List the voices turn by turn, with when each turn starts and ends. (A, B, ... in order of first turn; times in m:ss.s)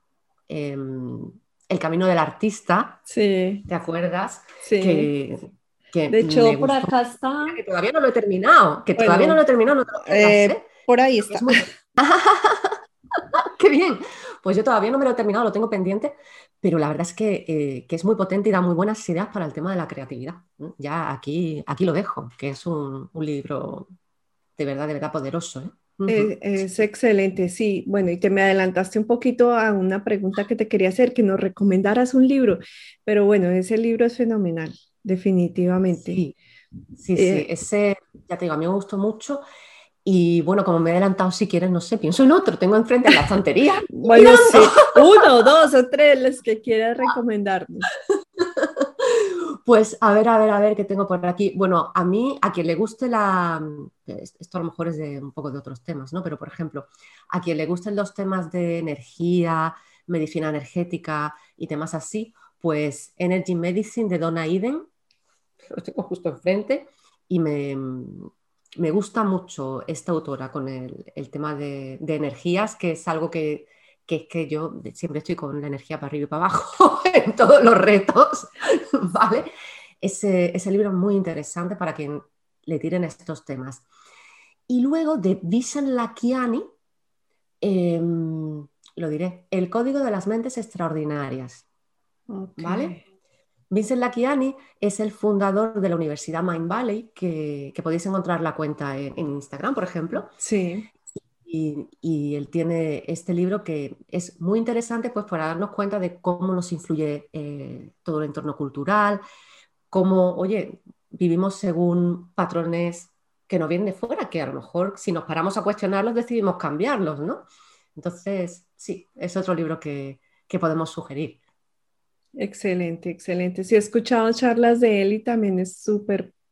0:00.5-0:03.0 A
0:03.1-0:03.7 B
0:03.7-0:06.9 A
0:04.6-0:05.1 B
0:06.1-0:07.6 B
0:07.4-0:10.6 A
0:09.0-0:09.4 B
0:10.0-0:11.7 B
0:11.3-0:23.9 A
0:24.6-0:26.7 A
0:26.1-0:36.2 B
0:36.0-0:36.4 A
0:37.0-0:39.4 A
0:37.2-0:37.5 B
0:40.0-0:45.2 A
0:43.9-0:47.9 B
0:48.4-1:04.9 A
1:05.6-1:19.5 A
1:20.0-1:23.8 A
1:24.7-1:26.6 A
1:27.6-1:31.6 A
1:32.3-1:33.0 B
1:32.6-1:33.0 A
1:33.7-1:40.3 A
1:40.4-1:40.9 B
1:41.4-1:49.2 A
1:49.9-2:01.4 A
2:02.4-2:06.3 B